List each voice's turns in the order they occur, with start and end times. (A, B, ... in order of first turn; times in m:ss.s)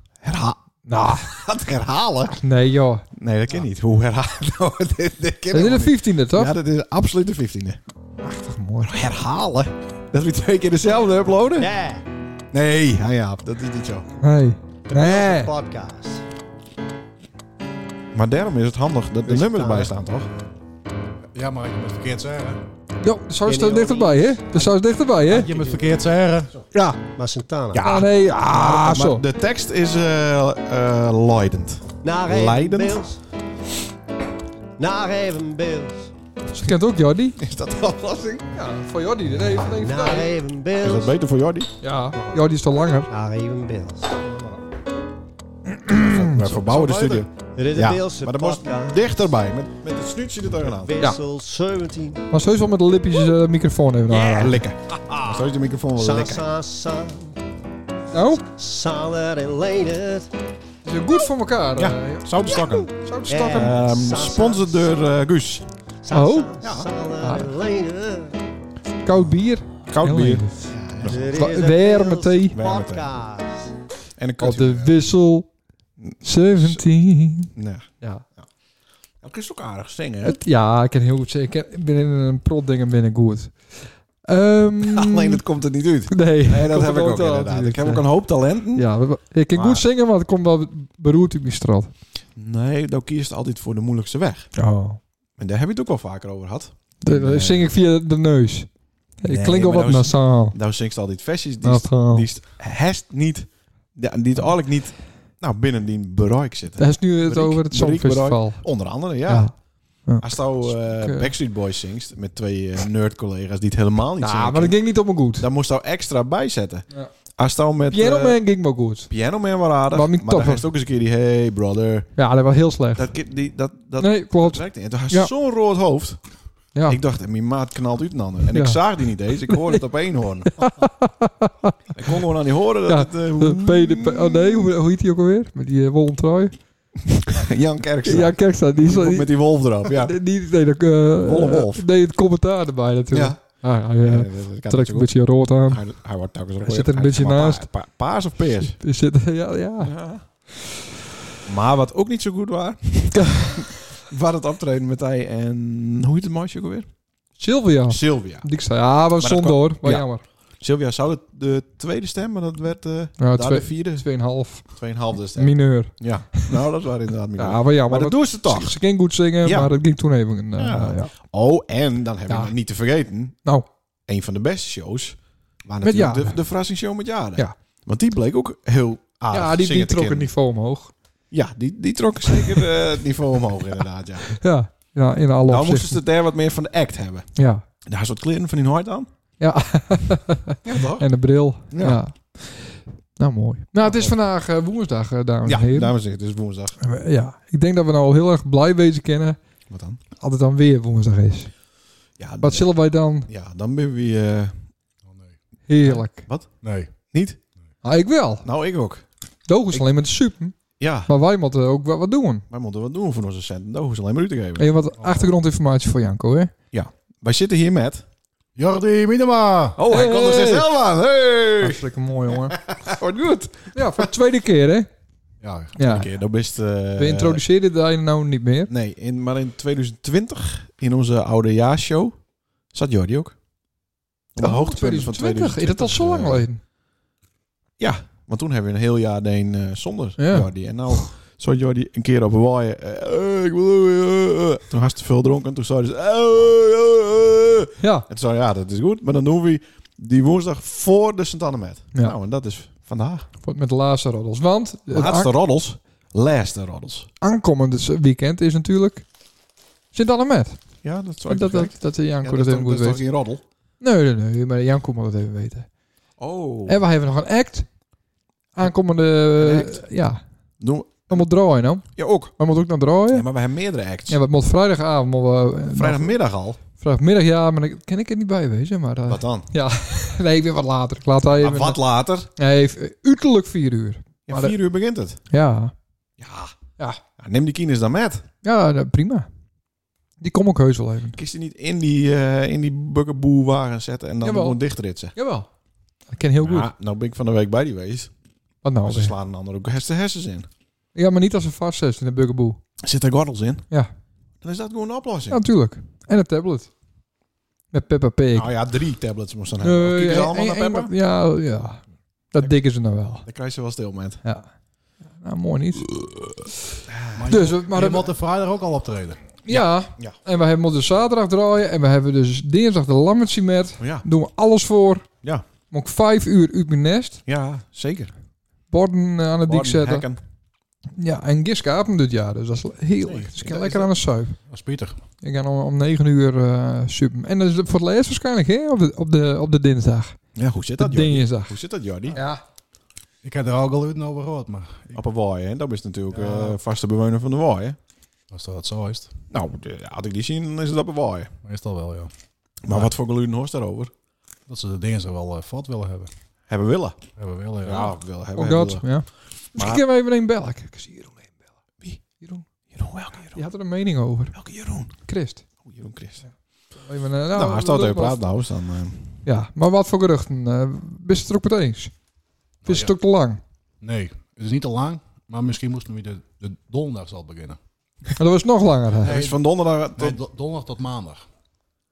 0:00.2-0:02.4 A
0:00.9-0:01.3 B
0:02.4-0:03.0 B
0:03.1-0:07.8 A
0:05.5-0:06.6 B
0:08.2-0:08.9 B
0:08.8-0:11.7 A
0:11.6-0:12.0 C
0:12.5-0:14.1 A
0:14.2-0:15.5 B
0:14.9-0:16.2 C
0:18.1-0:20.3 A
0:19.2-0:19.9 C
0:21.3-0:22.6 D
0:23.0-0:25.5 B
0:23.4-0:24.8 C
0:25.2-0:26.6 D
0:25.4-0:26.0 C
0:26.7-0:27.0 B
0:27.0-0:27.8 C
0:27.7-0:33.0 A
0:27.8-0:29.2 B
0:32.0-0:33.2 C
0:34.8-0:36.1 C
0:36.5-0:37.4 B
0:37.4-0:38.5 A
0:38.5-0:40.3 B
0:39.3-0:41.2 C
0:40.8-0:42.4 A
0:41.8-0:43.1 B
0:43.1-0:44.6 C
0:45.7-0:46.5 B
0:46.0-0:51.0 A
0:46.4-0:49.1 C
0:50.6-0:52.3 C
0:52.3-0:54.6 B
0:54.1-0:56.4 A
0:55.2-0:57.4 C
0:58.1-0:58.4 B
0:58.4-1:00.3 C
1:00.8-1:03.8 B
1:01.8-1:05.7 A
1:03.3-1:05.0 C
1:06.0-1:08.4 C
1:06.1-1:06.6 B
1:06.6-1:06.9 A
1:07.2-1:07.5 B
1:09.0-1:10.7 B
1:09.9-1:11.3 A
1:11.0-1:13.8 C
1:11.3-1:12.6 B
1:12.5-1:13.1 A
1:14.2-1:15.0 A
1:14.4-1:15.5 B
1:16.0-1:16.8 A
1:16.2-1:18.2 B
1:17.6-1:18.5 A
1:19.2-1:20.4 A
1:20.2-1:25.4 B
1:24.8-1:28.9 A
1:26.1-1:28.1 B
1:28.8-1:31.9 B
1:29.5-1:29.8 A
1:32.4-1:34.5 A
1:34.6-1:35.0 B
1:35.4-1:37.7 A
1:37.0-1:40.6 B
1:39.2-1:49.6 A
1:41.6-1:42.3 B
1:46.8-1:48.7 B
1:49.3-1:49.6 B
1:50.1-1:51.3 B
1:50.2-1:54.8 A
1:54.2-1:55.5 B
1:55.3-1:58.4 A
1:57.9-1:59.1 B
1:59.1-2:02.2 A
1:59.9-2:00.7 B
2:02.2-2:03.1 B
2:03.0-2:06.2 A
2:04.0-2:05.3 B
2:06.8-2:07.0 B
2:06.8-2:10.7 A
2:08.5-2:08.8 B
2:09.5-2:09.8 B
2:10.6-2:12.2 B
2:11.9-2:14.7 A
2:12.9-2:16.6 B
2:17.3-2:20.2 A
2:18.0-2:25.9 B
2:21.2-2:21.9 A
2:23.1-2:28.8 A
2:26.6-2:27.7 B
2:28.6-2:30.0 B
2:29.8-2:30.2 A
2:31.4-2:36.9 A
2:33.2-2:33.7 B
2:37.4-2:40.2 B
2:37.9-2:38.5 A
2:39.2-2:48.8 A
2:43.2-2:46.6 B
2:47.4-2:51.1 B
2:49.4-2:49.7 A
2:50.6-2:53.4 A
2:54.1-3:00.3 A
2:55.8-2:56.4 B
2:59.3-3:00.9 B
3:01.3-3:04.4 A
3:02.3-3:02.7 B
3:04.3-3:06.0 B
3:05.5-3:07.3 A
3:07.4-3:07.6 B
3:07.8-3:09.1 A
3:09.4-3:16.0 B
3:10.6-3:11.1 A
3:11.6-3:12.0 A
3:13.8-3:14.2 A
3:15.4-3:16.8 A
3:16.8-3:19.4 B
3:19.7-3:20.0 A
3:20.2-3:21.5 B
3:22.2-3:24.7 A
3:22.4-3:23.3 B
3:25.0-3:25.4 D
3:25.7-3:26.3 B
3:25.8-3:27.4 A
3:26.6-3:26.9 D
3:27.8-3:28.5 B
3:28.4-3:29.1 A
3:29.5-3:32.4 B
3:30.8-3:31.1 A
3:32.5-3:34.7 A
3:34.6-3:36.5 B
3:35.0-3:35.3 D
3:36.7-3:38.0 A
3:38.6-3:39.8 D
3:39.8-3:44.1 A
3:39.9-3:40.7 B
3:41.6-3:42.6 B
3:43.7-3:44.9 B
3:45.4-3:45.8 D
3:45.8-3:46.1 B
3:45.8-3:47.4 A
3:47.0-3:48.7 B
3:48.7-3:52.2 A
3:52.7-3:53.4 A
3:54.4-3:56.5 A
3:54.4-3:56.6 B
3:57.8-4:13.3 A
4:00.2-4:00.5 B
4:07.8-4:08.1 B
4:13.4-4:15.3 B
4:14.9-4:17.1 A
4:17.2-4:19.1 B
4:19.9-4:20.6 B
4:20.8-4:23.4 A
4:21.3-4:23.0 B
4:23.8-4:25.7 B
4:26.2-4:26.8 A
4:26.7-4:27.7 B
4:28.6-4:30.2 B
4:29.4-4:29.8 A
4:30.6-4:31.3 A
4:31.1-4:33.3 B
4:32.0-4:32.3 A
4:33.1-4:34.2 A
4:34.1-4:36.2 B
4:35.7-4:36.6 A
4:36.8-4:41.8 B
4:39.1-4:39.5 A
4:41.4-4:42.3 A
4:42.4-4:44.6 B
4:44.3-4:45.2 A
4:45.3-4:45.7 B
4:46.2-4:46.6 A
4:47.2-4:48.2 A
4:48.4-4:49.3 B
4:50.2-4:51.2 B
4:51.2-4:55.2 A
4:54.2-4:54.6 B
4:55.1-4:55.5 B
4:56.1-4:56.7 B
4:56.4-4:58.1 A
4:58.6-4:59.2 B
4:58.8-5:00.5 A
5:01.0-5:02.6 B
5:02.8-5:03.7 A
5:04.4-5:05.4 A
5:05.3-5:06.7 B
5:07.7-5:08.5 B
5:08.3-5:10.9 A
5:09.6-5:13.2 B
5:13.2-5:14.2 A
5:14.2-5:14.5 B
5:15.1-5:15.9 B
5:16.9-5:17.3 A
5:17.2-5:19.3 D
5:17.3-5:18.1 B
5:19.4-5:25.1 B
5:19.5-5:20.2 A
5:23.8-5:24.1 A
5:25.7-5:27.2 B
5:27.3-5:28.1 A
5:28.7-5:30.1 B
5:29.5-5:30.2 A
5:31.0-5:34.4 B
5:33.0-5:33.9 A
5:34.5-5:35.0 D
5:35.2-5:40.2 B
5:40.4-5:42.2 A
5:40.8-5:42.4 B
5:43.2-5:45.0 D
5:44.9-5:47.8 A
5:46.1-5:46.6 D
5:48.3-5:49.1 D
5:49.3-5:51.3 A
5:51.4-5:52.1 D
5:52.6-5:53.9 A
5:54.5-5:56.1 D
5:56.5-5:57.0 A
5:57.2-5:58.0 D
5:57.6-5:59.0 A
5:58.4-6:01.3 B
5:59.5-5:59.8 A
6:01.8-6:03.4 A
6:03.4-6:04.4 B
6:04.3-6:04.9 A
6:05.0-6:05.4 B
6:05.6-6:06.2 A
6:06.8-6:08.2 B
6:07.3-6:09.2 A
6:09.2-6:11.9 B
6:12.6-6:13.0 D
6:12.6-6:13.4 B
6:13.8-6:17.6 D
6:18.2-6:19.2 B
6:19.0-6:20.2 A
6:19.0-6:19.4 D
6:20.0-6:21.2 D